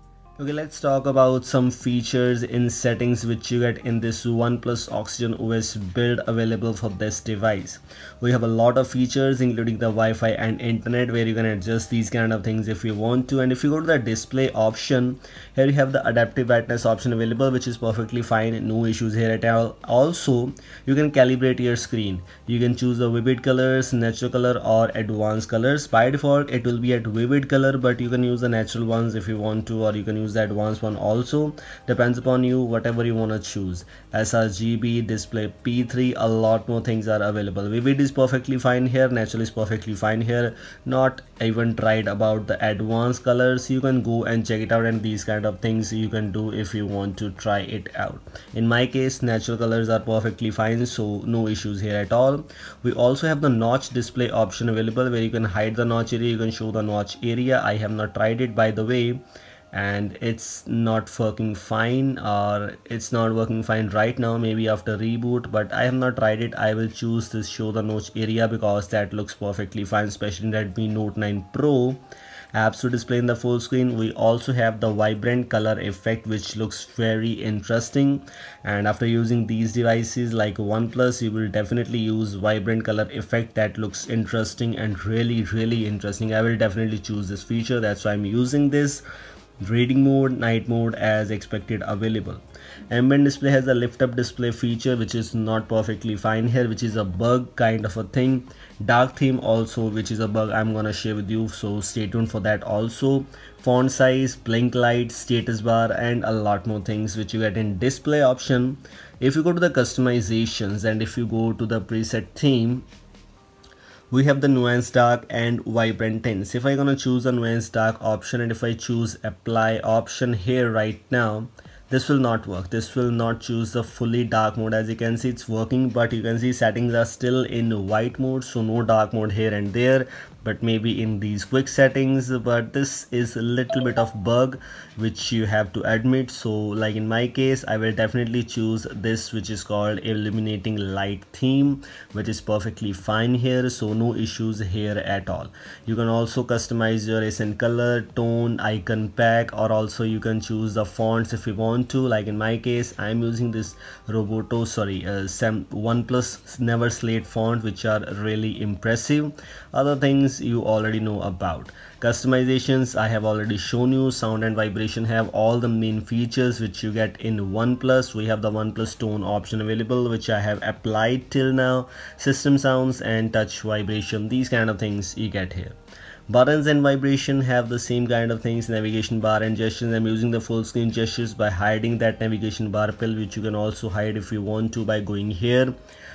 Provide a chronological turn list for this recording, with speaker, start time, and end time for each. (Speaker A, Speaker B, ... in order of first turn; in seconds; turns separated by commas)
Speaker A: 0.4-59.2, Speaker A: 59.7-72.0, Speaker A: 72.5-89.0, Speaker A: 89.6-112.8, Speaker A: 114.1-175.8, Speaker A: 176.3-185.7